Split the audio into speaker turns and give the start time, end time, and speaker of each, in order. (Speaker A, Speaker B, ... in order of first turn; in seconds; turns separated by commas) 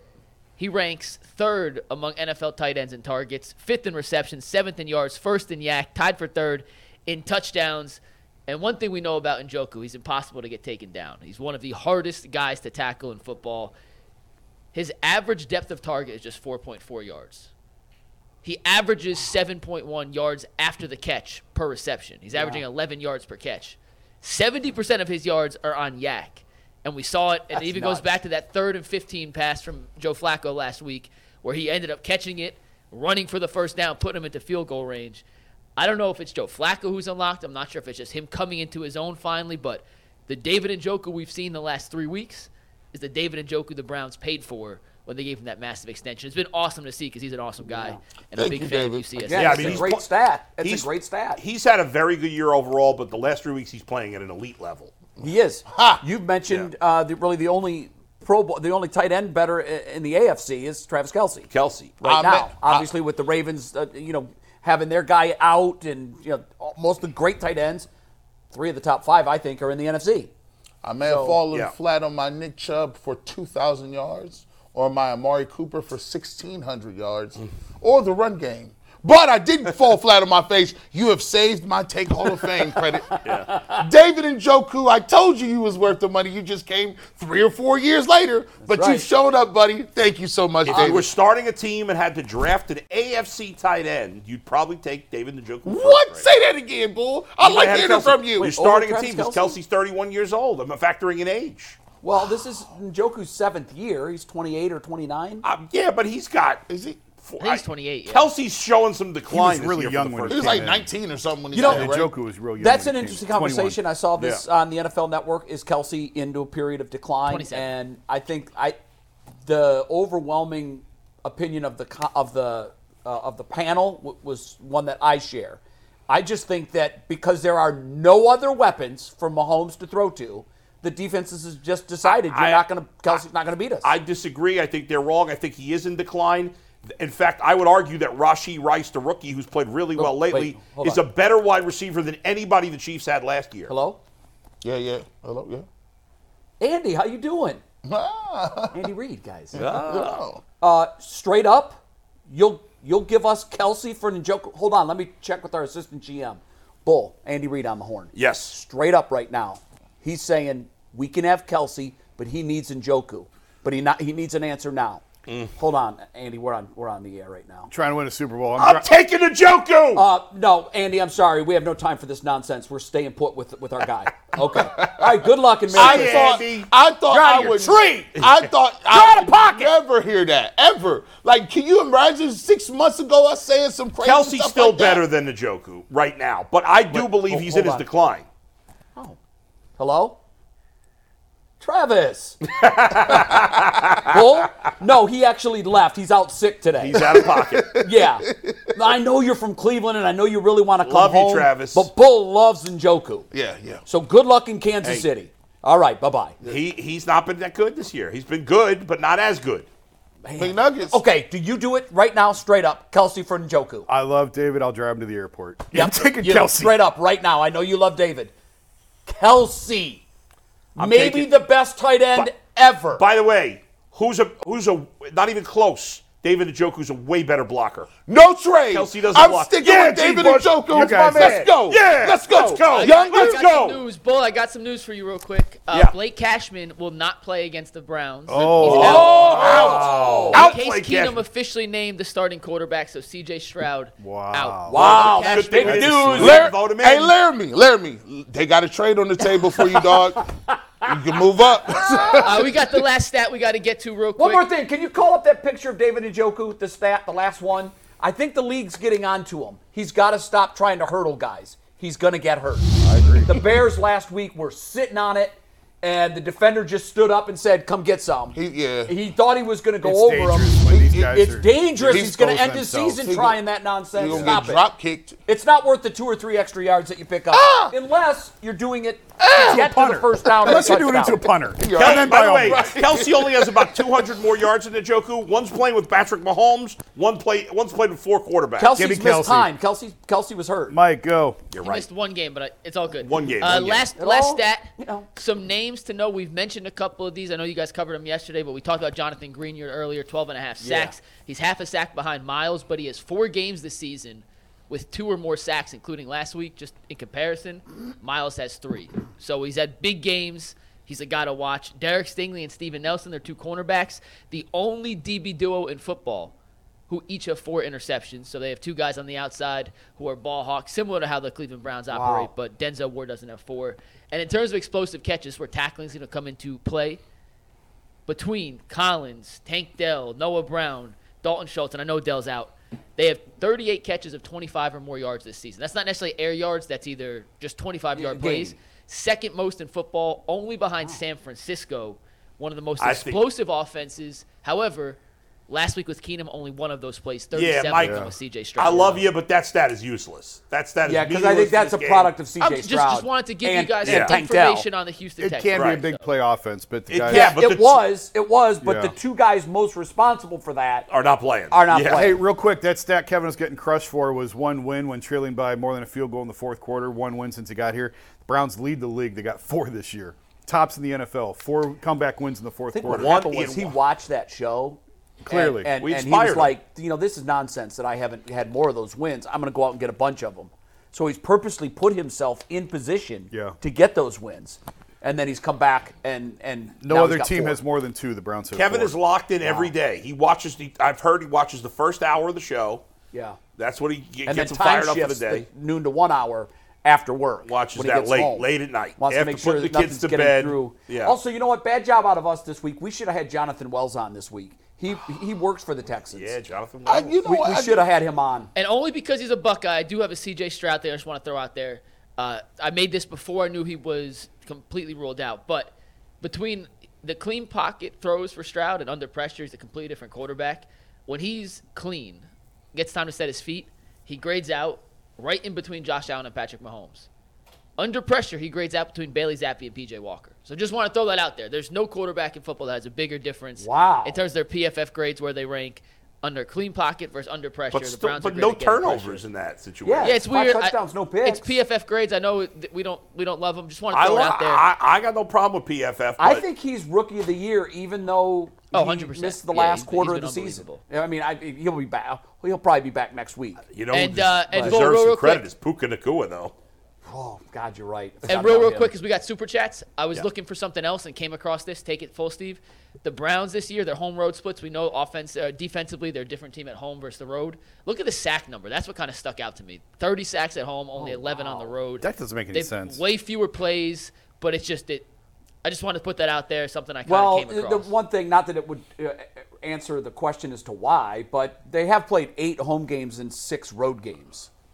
Speaker A: 0.6-13.7, Speaker A: 14.7-17.5, Speaker A: 18.4-35.2, Speaker B: 22.3-22.6, Speaker B: 27.5-28.1, Speaker A: 35.8-49.9, Speaker B: 47.6-48.0, Speaker C: 48.4-49.2, Speaker B: 49.3-51.4, Speaker D: 49.3-50.0, Speaker D: 50.6-54.9, Speaker B: 55.2-61.5, Speaker C: 55.7-56.0, Speaker D: 61.5-62.0, Speaker B: 62.0-67.9, Speaker C: 62.0-62.9, Speaker B: 68.5-70.3, Speaker C: 70.8-91.1, Speaker B: 71.0-71.4, Speaker B: 83.1-83.8, Speaker D: 83.2-83.5, Speaker B: 88.6-89.1, Speaker D: 90.7-96.3, Speaker B: 90.7-91.0, Speaker C: 95.6-98.5, Speaker D: 97.4-101.8, Speaker B: 98.4-99.6, Speaker B: 102.0-105.5, Speaker D: 105.4-106.7, Speaker C: 106.7-107.0, Speaker D: 107.2-110.7, Speaker A: 107.4-108.3, Speaker E: 109.3-110.9, Speaker C: 110.3-112.1, Speaker B: 111.5-111.9, Speaker E: 111.6-113.8, Speaker B: 112.6-118.8, Speaker D: 114.2-114.4, Speaker A: 117.2-117.7, Speaker B: 119.4-133.9, Speaker D: 132.0-133.2, Speaker D: 133.8-143.7, Speaker B: 140.0-141.0, Speaker B: 143.7-144.0, Speaker C: 144.6-145.7, Speaker B: 146.6-147.6, Speaker C: 147.8-148.8, Speaker B: 148.7-149.6, Speaker C: 149.5-150.4, Speaker D: 149.5-150.2, Speaker B: 150.6-165.0, Speaker D: 158.2-158.6, Speaker D: 165.3-165.5, Speaker B: 165.6-167.7, Speaker E: 167.7-168.9, Speaker D: 168.6-170.1, Speaker B: 169.9-176.4, Speaker C: 174.5-175.2, Speaker D: 175.7-176.7, Speaker C: 175.7-185.1, Speaker B: 177.1-178.2, Speaker B: 178.9-179.7, Speaker D: 184.0-188.3, Speaker B: 186.9-187.9, Speaker B: 189.8-190.2, Speaker B: 191.6-192.4, Speaker D: 192.5-194.1, Speaker B: 194.1-197.1, Speaker D: 196.8-197.7, Speaker C: 196.9-198.7, Speaker B: 197.8-203.3, Speaker D: 200.8-201.9, Speaker C: 203.3-203.8, Speaker B: 203.9-206.4, Speaker D: 206.4-209.7, Speaker B: 210.2-213.9, Speaker C: 210.4-211.0, Speaker E: 213.9-216.8, Speaker B: 215.7-218.3, Speaker B: 219.1-220.0, Speaker B: 220.8-223.0, Speaker E: 220.8-221.3, Speaker D: 223.0-227.9, Speaker C: 228.1-233.4, Speaker D: 228.7-233.8, Speaker E: 230.7-231.5, Speaker A: 232.7-239.7, Speaker E: 238.3-239.2, Speaker D: 238.5-241.2, Speaker B: 238.7-240.5, Speaker C: 239.4-240.2, Speaker A: 240.3-246.1, Speaker E: 244.0-244.8, Speaker B: 244.7-246.5, Speaker D: 244.7-247.2, Speaker C: 246.1-252.7, Speaker B: 249.6-251.0, Speaker B: 251.7-252.3, Speaker A: 252.1-254.5, Speaker B: 254.2-274.7, Speaker E: 262.8-263.3, Speaker C: 268.3-268.9, Speaker E: 269.8-273.1, Speaker C: 270.7-271.3, Speaker C: 271.9-272.4, Speaker C: 273.0-273.4, Speaker C: 273.9-275.2, Speaker E: 274.1-274.4, Speaker B: 275.3-281.3, Speaker C: 277.3-277.7, Speaker C: 279.2-279.7, Speaker E: 279.2-282.8, Speaker C: 280.4-284.2, Speaker D: 281.7-288.7, Speaker B: 288.6-290.8, Speaker E: 288.8-289.5, Speaker E: 290.7-291.4, Speaker D: 291.5-291.9, Speaker A: 291.6-316.3, Speaker D: 293.0-293.9, Speaker B: 294.0-295.1, Speaker B: 300.6-301.0, Speaker A: 316.9-327.0, Speaker B: 321.9-322.3, Speaker A: 328.1-349.1, Speaker B: 337.9-338.6, Speaker D: 342.8-343.2, Speaker D: 347.3-352.2, Speaker E: 347.8-348.1, Speaker B: 350.9-354.7, Speaker A: 352.4-356.1, Speaker D: 353.8-354.2, Speaker E: 355.2-357.3, Speaker D: 355.6-355.8, Speaker D: 356.9-357.8, Speaker B: 357.1-360.9, Speaker E: 358.6-358.9, Speaker D: 360.9-362.2, Speaker B: 361.5-362.2, Speaker E: 361.9-373.3, Speaker B: 372.7-387.6, Speaker D: 372.9-373.8, Speaker E: 375.2-375.7, Speaker D: 375.8-376.6, Speaker E: 383.3-383.6, Speaker E: 386.8-388.9, Speaker D: 388.5-392.8, Speaker B: 389.4-389.7, Speaker B: 393.1-393.4, Speaker D: 393.6-395.5, Speaker B: 394.3-406.4, Speaker D: 397.5-401.2, Speaker D: 406.1-407.2, Speaker C: 406.9-407.9, Speaker B: 407.2-408.5, Speaker A: 408.6-427.1, Speaker A: 427.8-439.2, Speaker B: 433.6-434.2, Speaker D: 437.7-440.2, Speaker B: 439.8-441.5, Speaker A: 440.0-444.7, Speaker D: 443.9-446.4, Speaker B: 446.2-453.6, Speaker A: 448.7-450.8, Speaker D: 453.7-456.5, Speaker A: 453.9-455.5, Speaker B: 457.1-458.9, Speaker A: 458.3-475.1, Speaker B: 471.0-471.7, Speaker E: 472.0-473.0, Speaker A: 475.6-477.9, Speaker B: 477.1-484.5